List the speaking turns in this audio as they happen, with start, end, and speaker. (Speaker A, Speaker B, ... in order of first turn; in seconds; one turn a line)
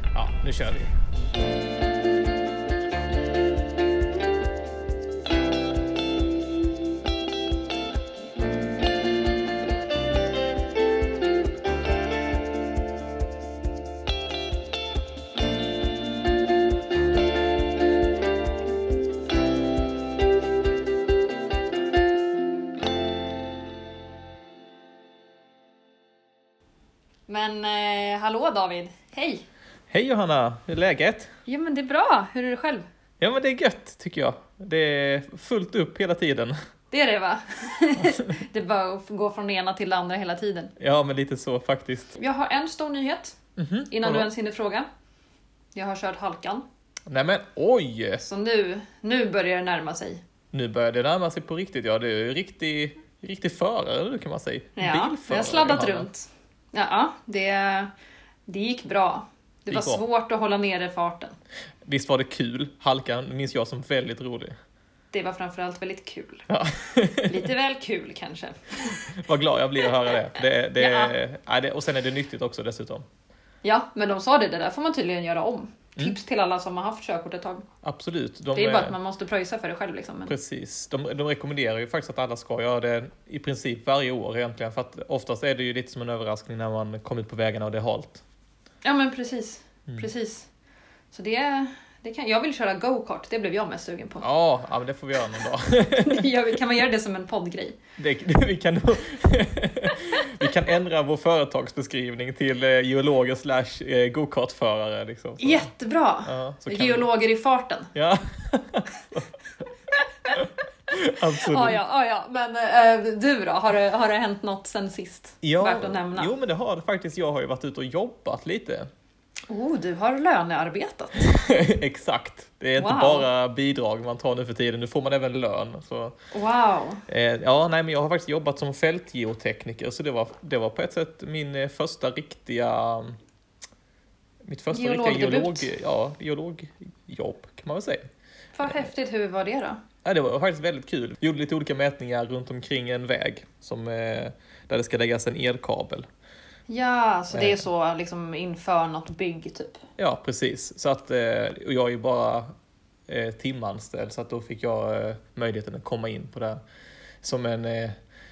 Speaker A: 0.1-0.9
Speaker B: 27.3-29.4
Speaker A: 29.9-31.3
Speaker B: 31.4-32.9
Speaker A: 33.2-36.6
Speaker B: 36.9-40.7
Speaker A: 40.8-42.1
Speaker B: 42.1-43.4
Speaker A: 43.6-44.3
Speaker B: 43.9-44.9
Speaker B: 45.7-46.6
Speaker A: 47.1-48.2
Speaker B: 48.2-50.2
Speaker A: 50.5-56.1
Speaker B: 54.8-57.9
Speaker B: 58.5-61.4
Speaker A: 59.7-60.0
Speaker A: 61.8-64.5
Speaker B: 65.1-66.5
Speaker A: 66.5-67.5
Speaker B: 67.2-69.2
Speaker A: 69.1-73.0
Speaker B: 70.8-71.1
Speaker B: 73.6-77.7
Speaker A: 77.8-79.0
Speaker B: 78.5-80.3
Speaker A: 80.3-88.2
Speaker B: 88.8-90.5
Speaker B: 91.1-94.3
Speaker A: 94.2-96.5
Speaker B: 95.9-97.8
Speaker A: 98.0-105.7
Speaker B: 105.4-107.9
Speaker A: 106.2-107.1
Speaker A: 107.9-109.3
Speaker A: 110.3-111.8
Speaker B: 111.3-116.3
Speaker A: 115.4-118.9
Speaker B: 119.5-121.3
Speaker A: 121.2-126.2
Speaker B: 122.8-123.3
Speaker B: 126.3-127.0
Speaker A: 127.1-133.2
Speaker A: 134.4-138.1
Speaker B: 134.7-135.7
Speaker B: 138.6-139.8
Speaker A: 140.0-146.1
Speaker B: 146.7-149.8
Speaker A: 147.3-147.6
Speaker A: 150.0-152.5
Speaker A: 153.1-156.6
Speaker A: 157.2-158.0